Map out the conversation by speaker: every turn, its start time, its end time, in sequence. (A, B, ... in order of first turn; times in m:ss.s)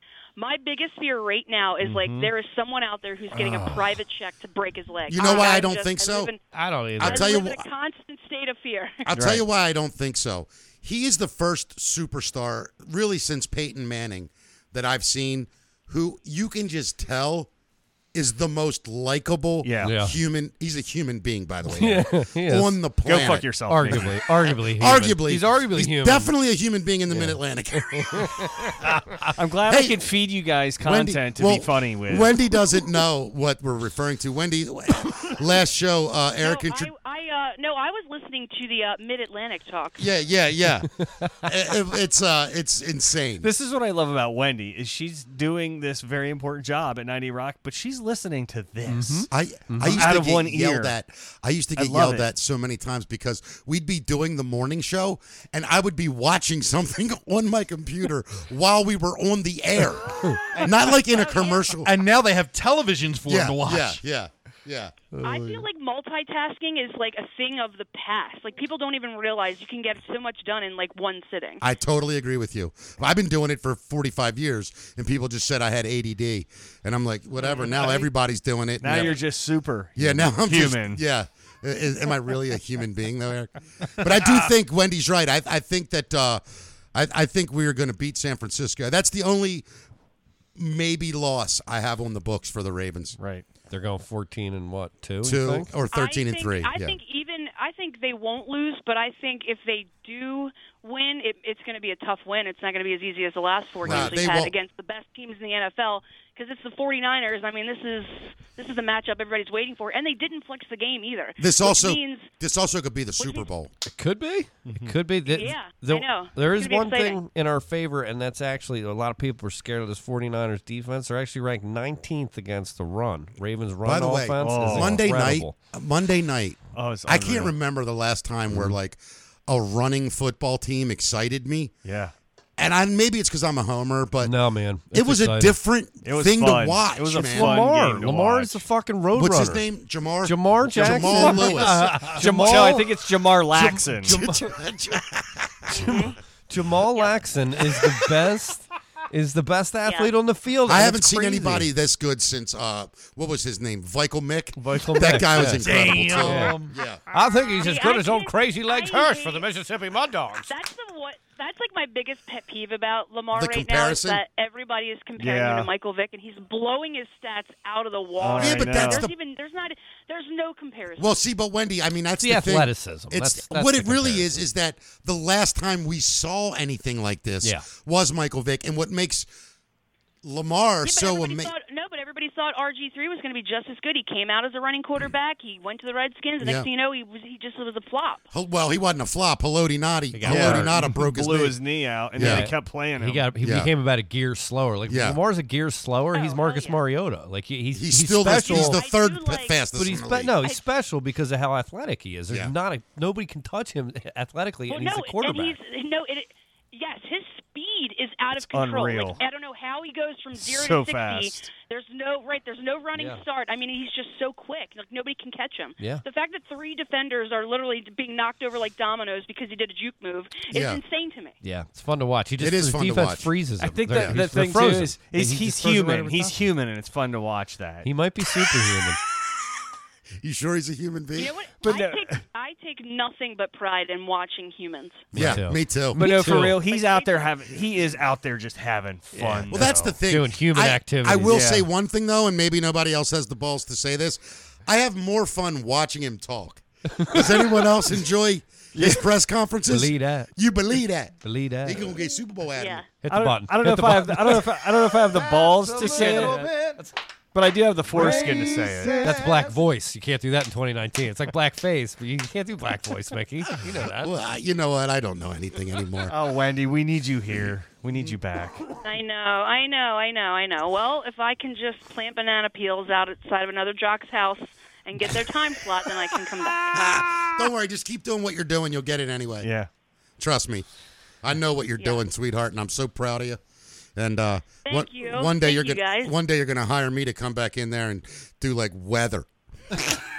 0:00.4-0:06.4 A
0:01.8-0:02.3 B
0:05.1-0:06.3 C
0:06.5-0:07.4 D
0:07.0-0:07.6 C
0:07.0-0:09.0 A
0:09.1-0:17.5 C
0:09.1-0:09.4 B
0:18.1-0:28.4 C
0:19.6-0:20.0 B
0:19.8-0:20.1 D
0:21.7-0:22.7 D
0:23.0-0:24.2 B
0:23.7-0:26.3 D
0:27.9-0:29.3 D
0:29.3-0:32.3 B
0:29.7-0:30.0 C
0:30.8-0:36.9 C
0:36.4-0:40.0 A
0:40.0-0:40.9 C
0:41.4-0:43.5 C
0:43.4-0:49.2 B
0:48.9-0:50.1 D
0:49.3-1:01.9 C
0:49.9-0:50.9 B
0:51.8-0:52.3 B
1:00.9-1:01.6 A
1:01.8-1:04.0 E
1:03.2-1:05.0 C
1:05.2-1:05.6 D
1:05.2-1:11.6 A
1:11.6-1:19.2 C
1:18.8-1:21.0 B
1:20.0-1:26.4 C
1:26.9-1:29.6 C
1:30.6-1:33.2 C
1:33.2-1:33.5 B
1:33.7-1:35.7 D
1:35.2-1:37.0 C
1:35.9-1:52.3 A
1:43.8-1:44.5 C
1:51.4-1:53.7 C
1:53.2-1:53.5 A
1:53.9-2:05.6 D
1:54.6-1:54.9 B
1:55.2-1:57.2 A
2:03.8-2:11.7 C
2:04.4-2:05.0 B
2:06.7-2:07.5 B
2:11.8-2:12.1 B
2:12.6-2:14.3 C
2:14.2-2:15.5 D
2:14.9-2:17.6 C
2:16.0-2:18.6 B
2:17.1-2:19.6 D
2:19.1-2:22.1 C
2:20.2-2:22.9 D
2:20.8-2:24.2 B
2:21.8-2:22.2 E
2:23.5-2:24.4 D
2:24.0-2:26.0 C
2:25.8-2:26.1 A
2:26.5-2:31.7 D
2:29.8-2:30.1 A
2:30.6-2:37.0 C
2:34.6-2:40.5 D
2:35.4-2:36.7 E
2:37.5-2:39.5 A
2:40.5-2:51.2 A
2:43.3-2:44.2 C
2:45.2-2:45.7 B
2:48.2-2:49.1 B
2:48.4-2:49.1 C
2:51.0-2:59.3 C
2:52.2-2:54.4 D
3:00.2-3:01.5 C
3:00.8-3:08.2 A
3:06.4-3:06.7 C
3:08.3-3:11.6 C
3:10.1-3:10.8 D
3:10.2-3:13.3 B
3:12.2-3:12.5 C
3:12.2-3:18.8 D
3:13.4-3:13.7 C
3:14.9-3:15.2 C
3:16.1-3:16.8 A
3:17.7-3:20.3 C
3:18.3-3:19.6 A
3:19.7-3:25.6 D
3:24.7-3:41.4 A
3:28.5-3:29.2 B
3:30.4-3:31.4 B
3:32.9-3:33.2 D
3:35.8-3:36.0 D
3:40.5-3:40.8 C
3:41.4-3:46.4 D
3:42.4-3:43.3 C
3:43.6-3:47.9 B
3:43.9-3:44.2 C
3:47.8-3:49.0 D
3:50.2-3:51.3 C
3:51.2-3:55.1 A
3:51.6-3:52.2 B
3:55.1-3:56.6 D
3:55.1-3:56.0 C
3:56.0-4:00.0 B
3:56.7-3:57.3 A
3:59.1-4:01.5 D
3:59.5-4:12.8 C
4:01.3-4:01.6 B
4:08.7-4:09.0 B
4:09.7-4:10.3 D
4:11.2-4:11.9 D
4:12.6-4:12.8 A
4:13.0-4:16.9 D
4:13.1-4:16.4 B
4:15.7-4:16.7 E
4:17.3-4:19.0 B
4:18.0-4:18.4 D
4:18.0-4:18.5 E
4:19.0-4:24.1 D
4:19.0-4:19.5 E
4:24.0-4:26.1 C
4:26.1-4:28.6 B
4:28.8-4:36.8 A
4:36.7-4:39.5 C
4:39.4-4:39.7 B
4:40.2-4:40.6 C
4:41.2-4:43.4 C
4:44.0-4:49.9 C
4:44.6-4:46.1 A